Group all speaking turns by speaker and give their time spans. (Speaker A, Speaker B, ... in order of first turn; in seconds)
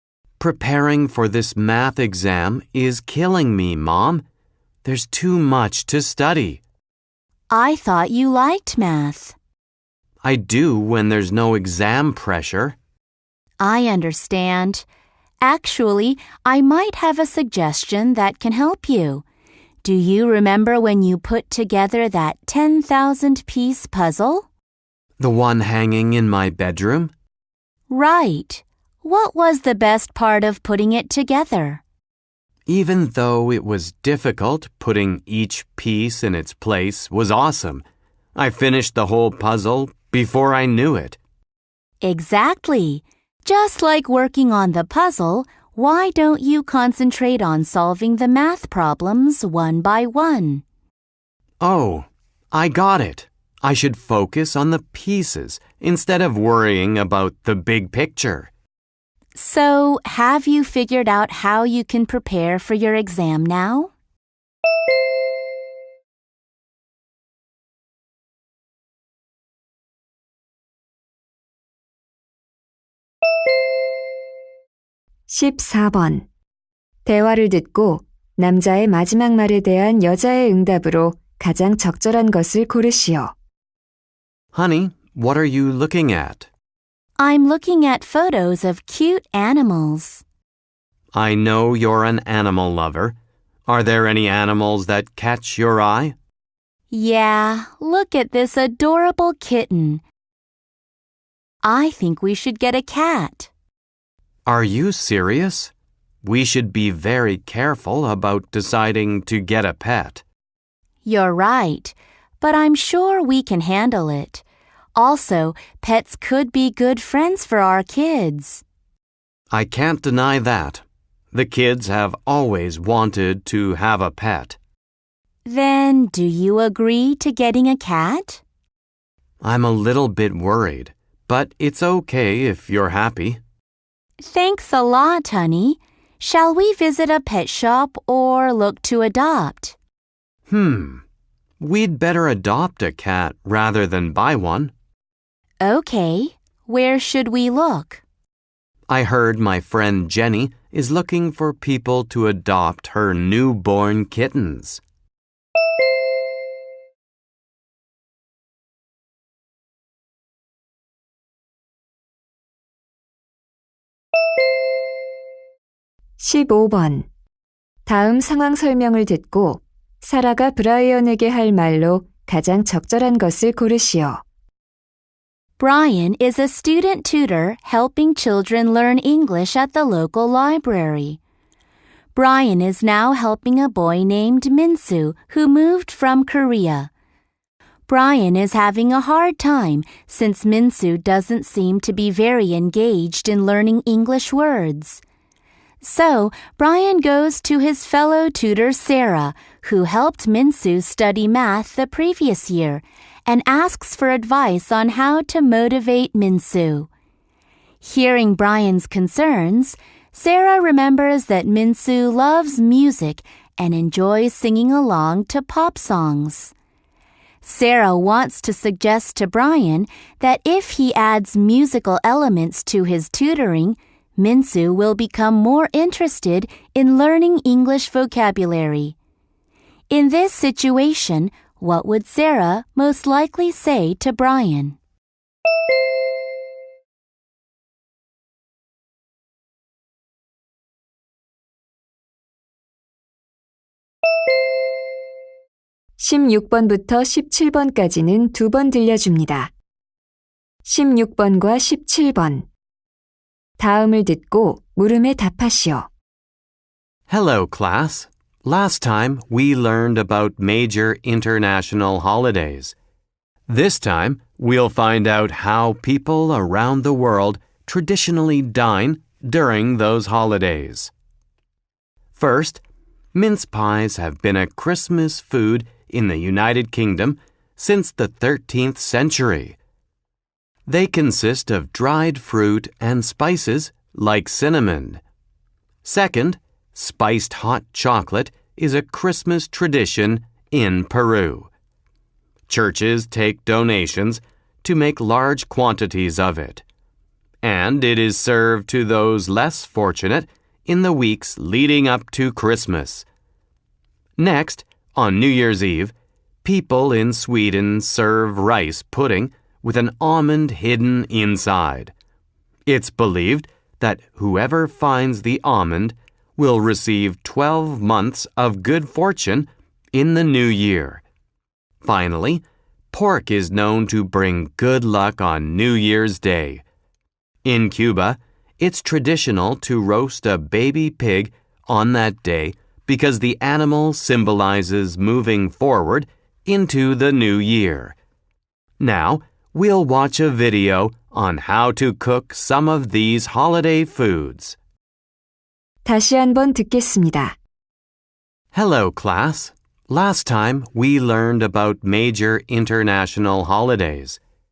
Speaker A: 0.4-4.2, 4.8-6.6, 10.2-12.8, 25.2-27.1, 32.6-37.8, 38.3-41.2, 51.6-58.5, 84.5-86.5, 91.1-96.1, 104.5-105.7, 106.2-110.2, 119.5-124.6, 129.4-133.4, 140.5-141.0, 141.6-144.7, 148.9-154.8, 257.1-262.7, 263.5-270.9, 272.1-272.6, 273.1-279.6, 280.7-285.0, 285.8-291.5, 292.5-296.6, 297.4-303.0, 304.2-305.9, 306.4-311.9, 312.6-321.0, 321.8-326.6, 327.4-337.9, 338.8-344.6, 348.5-354.2
Speaker B: 7.5-9.3, 13.6-14.8, 15.4-19.2, 19.8-24.5, 27.9-31.8, 42.0-50.6, 59.3-63.9, 87.2-90.2, 96.9-100.0, 101.6-103.5, 111.0-114.4, 115.0-118.6, 125.4-128.4, 134.2-139.8, 145.6-148.0, 175.6-181.2, 182.1-186.9, 187.9-195.0, 195.8-206.9, 207.8-216.5, 217.4-228.9, 229.9-234.8
Speaker C: 75.3-76.3, 77.0-83.3, 166.2-167.1, 167.8-174.2, 246.0-249.5, 250.6-252.4, 253.6-255.9, 345.8-347.4